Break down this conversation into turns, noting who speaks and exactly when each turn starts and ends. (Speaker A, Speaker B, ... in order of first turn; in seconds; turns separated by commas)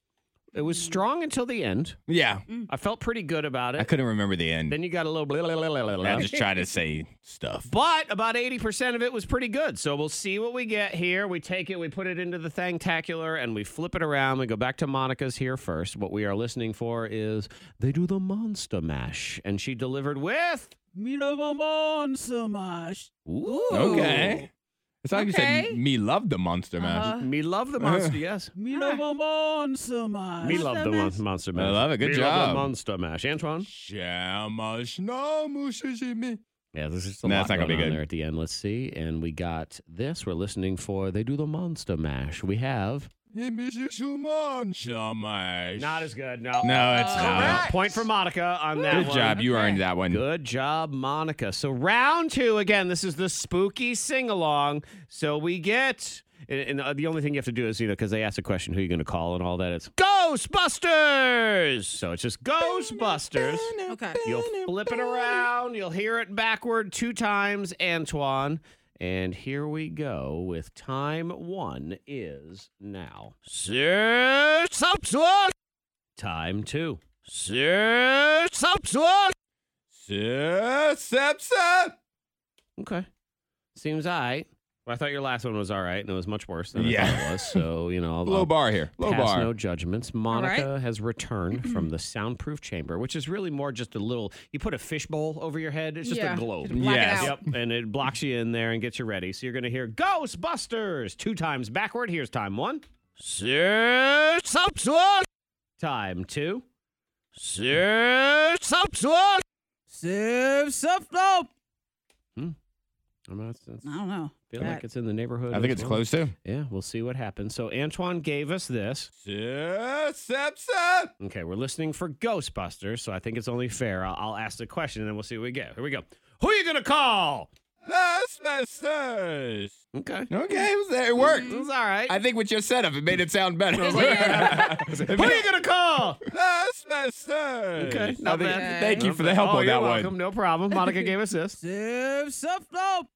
Speaker A: 0.5-2.0, Speaker B: 2.1-2.5, Speaker A: 2.7-3.9, Speaker B: 3.8-4.8, Speaker A: 4.7-6.3, Speaker B: 6.0-7.7, Speaker C: 6.2-6.5, Speaker A: 7.7-20.8, Speaker C: 20.9-24.4, Speaker A: 23.3-24.4, Speaker B: 23.7-24.5, Speaker B: 25.0-27.2, Speaker C: 25.1-25.8, Speaker C: 26.8-27.3, Speaker A: 27.1-28.5, Speaker B: 27.8-28.1, Speaker C: 28.6-31.2, Speaker A: 30.4-33.7, Speaker B: 31.6-32.7, Speaker B: 33.6-36.4, Speaker A: 36.7-43.1, Speaker B: 37.2-38.0, Speaker B: 43.3-46.1, Speaker A: 45.8-49.4, Speaker B: 46.6-47.8, Speaker C: 46.8-47.8, Speaker C: 48.8-49.8, Speaker B: 48.9-50.2, Speaker A: 50.1-63.7, Speaker B: 62.6-65.5, Speaker C: 63.9-64.2, Speaker A: 64.2-75.5, Speaker A: 76.2-79.3, Speaker B: 79.9-82.0, Speaker A: 82.8-83.1, Speaker A: 83.8-105.3, Speaker B: 86.8-87.6, Speaker B: 88.2-89.5, Speaker C: 90.3-90.7, Speaker C: 96.0-97.4, Speaker B: 96.7-97.4, Speaker A: 105.8-106.7, Speaker A: 107.3-109.4, Speaker C: 109.9-111.5, Speaker A: 113.3-114.0, Speaker C: 113.8-114.8, Speaker A: 114.5-119.1, Speaker B: 115.5-116.3, Speaker B: 119.2-121.1, Speaker A: 121.2-127.5, Speaker B: 127.8-135.5, Speaker A: 129.9-130.3, Speaker A: 131.2-132.2, Speaker C: 131.3-131.6, Speaker A: 133.8-136.2, Speaker C: 133.8-134.9, Speaker B: 136.2-140.1, Speaker A: 137.8-141.6, Speaker C: 138.4-139.1, Speaker C: 141.6-143.1